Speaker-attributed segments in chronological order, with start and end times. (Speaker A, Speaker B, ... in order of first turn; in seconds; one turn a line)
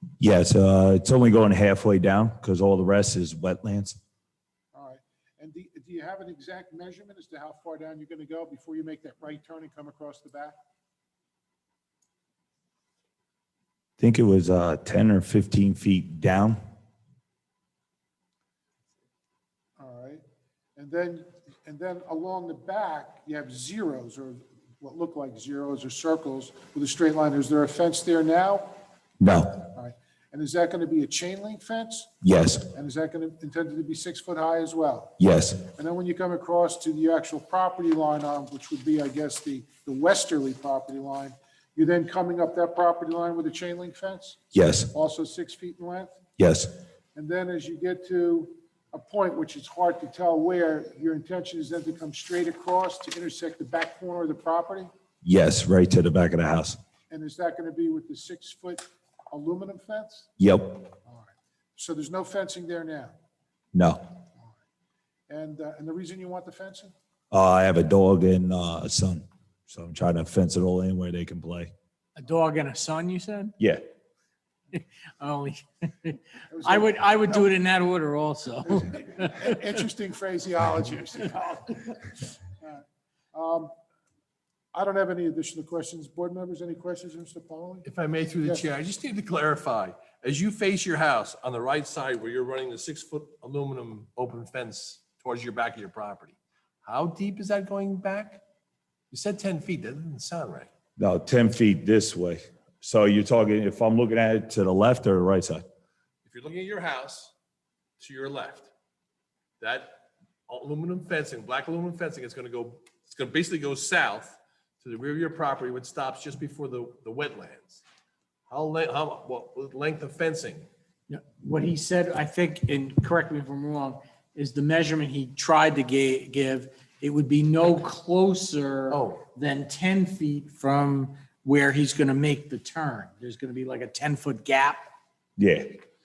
Speaker A: 0.2-4.0
Speaker B: 4.7-10.6
Speaker A: 14.0-16.6
Speaker B: 19.8-20.2
Speaker B: 20.8-28.8
Speaker A: 29.2-29.6
Speaker B: 29.7-32.1
Speaker A: 32.2-32.6
Speaker B: 32.7-35.1
Speaker A: 35.2-35.6
Speaker B: 35.7-44.4
Speaker A: 44.5-44.9
Speaker B: 44.9-46.2
Speaker A: 46.4-46.7
Speaker B: 47.1-54.9
Speaker A: 55.2-56.8
Speaker B: 57.1-60.3
Speaker A: 60.4-60.9
Speaker B: 61.0-63.1
Speaker A: 63.7-64.0
Speaker B: 65.3-66.9
Speaker A: 67.3-71.7
Speaker C: 72.2-73.5
Speaker C: 74.7-79.4
Speaker B: 76.5-77.5
Speaker B: 78.7-82.8
Speaker B: 83.3-83.7
Speaker B: 84.7-87.9
Speaker D: 87.8-98.4
Speaker D: 99.1-100.7
Speaker A: 101.0-105.6
Speaker D: 106.2-107.3
Speaker D: 108.0-108.7
Speaker D: 109.6-117.8
Speaker D: 118.5-120.7
Speaker C: 121.1-134.9
Speaker D: 128.9-129.2
Speaker A: 135.4-135.8